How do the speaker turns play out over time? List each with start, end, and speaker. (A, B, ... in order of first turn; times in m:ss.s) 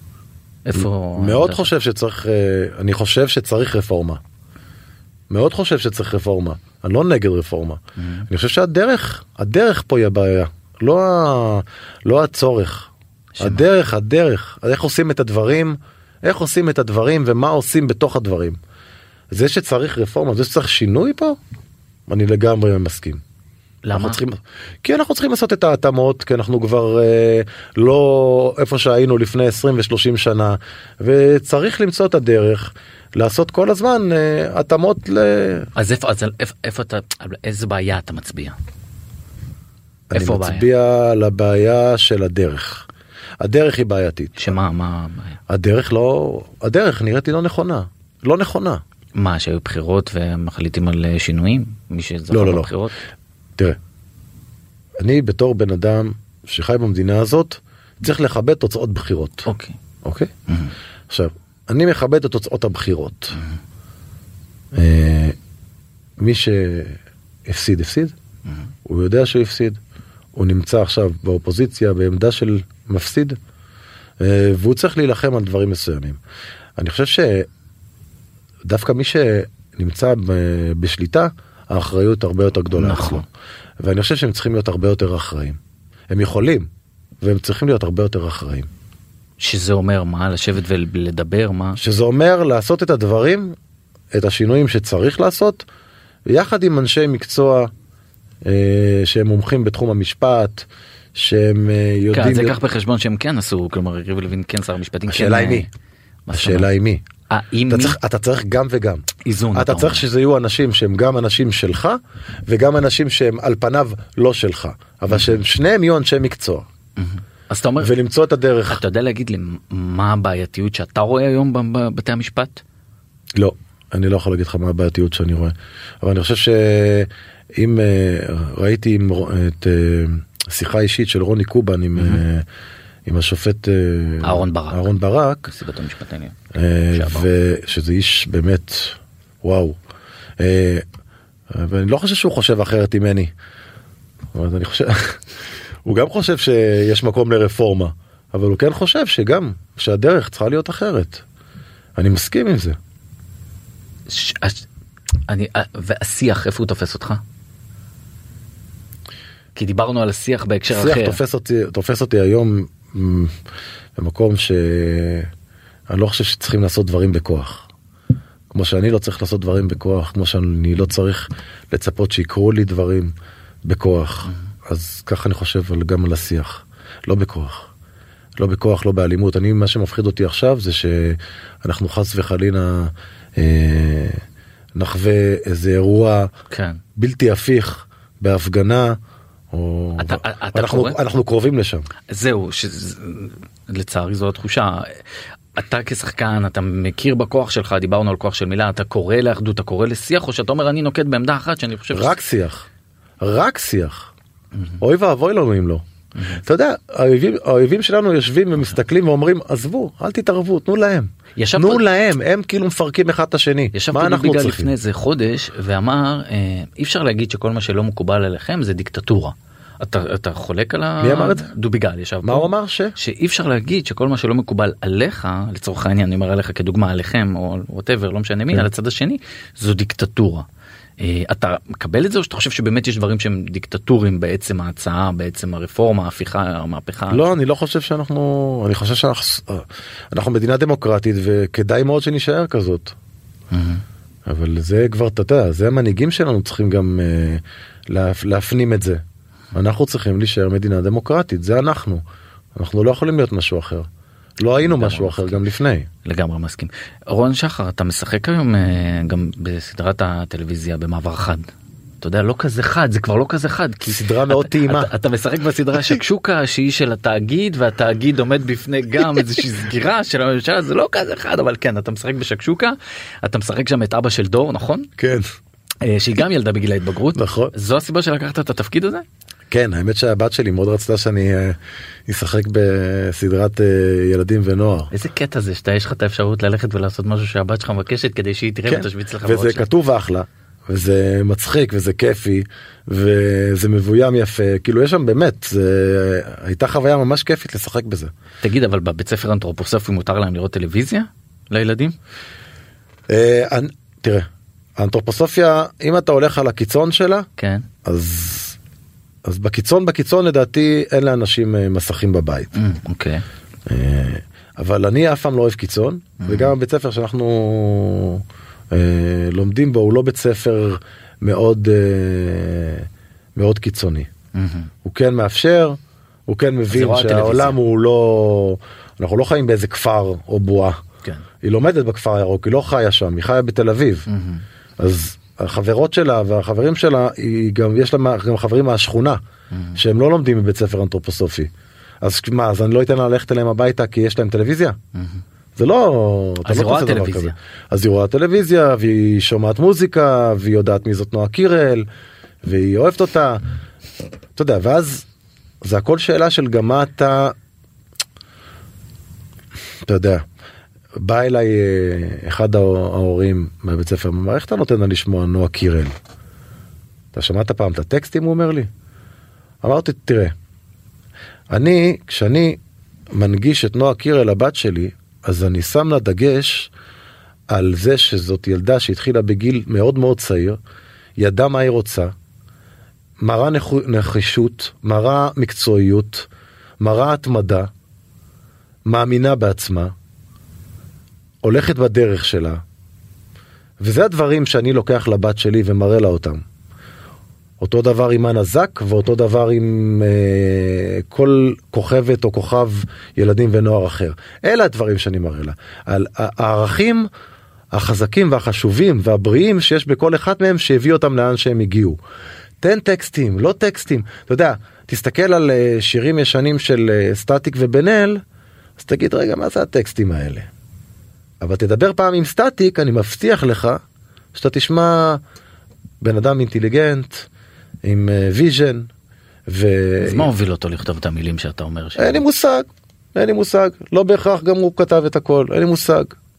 0:00.6-0:01.7 A
0:00.7-0:04.2 B
0:05.3-0:12.9 B
0:08.0-0:08.2 A
0:13.4-0:13.6 A
0:13.4-0:18.6 B
0:19.3-0:21.4 B
0:22.1-0:23.2 B
0:23.8-0:24.2 A
0:24.0-0:35.7 B
0:35.7-0:38.6 A
0:40.1-0:42.9 B
0:40.1-0:40.7 A
0:43.4-0:44.5 B
0:44.4-0:45.4 A
0:45.5-0:48.8 B
0:49.1-0:53.0 A
0:52.3-0:52.7 B
0:55.0-0:59.5 B
0:59.4-0:59.8 A
1:00.0-1:00.3 B
1:01.1-1:03.4 B
1:04.7-1:05.4 B
1:06.2-1:08.1 B
1:08.8-1:09.8 B
1:10.3-1:13.4 B
1:14.2-1:16.2 B
1:16.8-1:17.5 B
1:18.6-1:23.2 B
1:22.7-1:23.2 A
1:23.8-1:25.6 B
1:26.1-1:26.7 B
1:27.2-1:28.7 B
1:29.4-1:31.8 A
1:31.8-1:33.6 B
1:34.1-1:35.6 B
1:36.3-1:37.7 B
1:38.4-1:42.6 B
1:42.1-1:45.7 A
1:45.1-1:45.7 B
1:46.2-1:46.7 A
1:46.3-1:47.0 B
1:47.3-1:48.0 A
1:47.7-1:56.7 B
1:49.2-1:50.0 A
1:55.1-1:55.4 A
1:57.0-1:57.9 A
1:57.8-1:58.8 B
1:58.7-2:02.6 A
2:03.4-2:12.4 B
2:13.0-2:15.5 B
2:14.2-2:14.9 A
2:15.5-2:16.4 A
2:16.5-2:19.8 B
2:16.9-2:17.3 A
2:20.4-2:20.8 B
2:21.5-2:23.3 B
2:24.3-2:25.3 B
2:25.8-2:31.2 B
2:32.0-2:32.8 B
2:34.1-2:34.6 A
2:35.3-2:37.2 A
2:39.6-2:41.2 A
2:40.7-2:43.3 B
2:44.0-2:45.3 B
2:45.9-2:47.7 B
2:48.5-2:53.1 B
2:53.6-2:57.7 B
2:58.4-3:04.2 B
3:04.8-3:06.3 B
3:06.5-3:06.8 A
3:07.0-3:09.0 B
3:09.5-3:11.9 B
3:10.0-3:11.0 A
3:12.1-3:15.0 A
3:15.5-3:22.2 A
3:21.9-3:22.7 B
3:23.2-3:24.1 B
3:24.8-3:25.8 B
3:26.2-3:26.4 A
3:26.4-3:34.7 B
3:31.4-3:31.8 A
3:33.7-3:50.4 A
3:41.0-3:41.5 B
3:42.2-3:42.9 B
3:51.0-3:57.3 A
3:57.1-4:02.9 B
4:03.5-4:03.8 A
4:04.2-4:09.0 B
4:09.5-4:12.0 B
4:12.5-4:13.9 B
4:14.4-4:15.9 B
4:14.6-4:15.4 A
4:16.0-4:21.5 A
4:22.0-4:34.9 A
4:23.8-4:24.9 B
4:35.0-4:35.3 B
4:35.8-4:39.0 A
4:37.1-4:37.5 B
4:39.5-4:44.9 B
4:44.9-4:49.7 A
4:48.7-4:58.1 B
4:58.4-5:02.0 A
5:03.1-5:07.3 B
5:07.4-5:07.6 A
5:07.8-5:08.6 B
5:09.2-5:12.5 B
5:12.5-5:13.2 A
5:13.7-5:24.1 B
5:16.2-5:16.5 A
5:24.3-5:24.7 A
5:24.8-5:30.8 B
5:26.7-5:27.6 A
5:31.4-5:34.1 B
5:34.1-5:34.4 A
5:34.8-5:39.2 B
5:39.5-5:39.8 A
5:39.8-5:41.5 B
5:42.0-5:44.8 B
5:45.6-5:51.9 B
5:46.4-5:47.3 A
5:52.4-5:53.4 B
5:54.4-5:55.0 B
5:55.6-5:57.4 B
5:59.8-6:00.2 B
6:01.0-6:05.9 B
6:07.1-6:08.7 B
6:09.6-6:10.3 B
6:11.5-6:12.6 B
6:13.1-6:16.7 B
6:17.5-6:20.6 B
6:21.2-6:22.1 B
6:23.2-6:26.3 B
6:26.8-6:27.7 B
6:28.8-6:29.9 B
6:31.4-6:32.6 B
6:33.8-6:36.4 B
6:37.6-6:47.1 B
6:47.7-6:52.0 B
6:52.6-6:58.2 B
6:58.8-7:00.5 B
7:01.4-7:03.8 B
7:04.3-7:05.2 B
7:06.0-7:07.3 B
7:07.8-7:08.9 B
7:09.5-7:10.3 B
7:10.0-7:12.2 A
7:12.0-7:16.2 B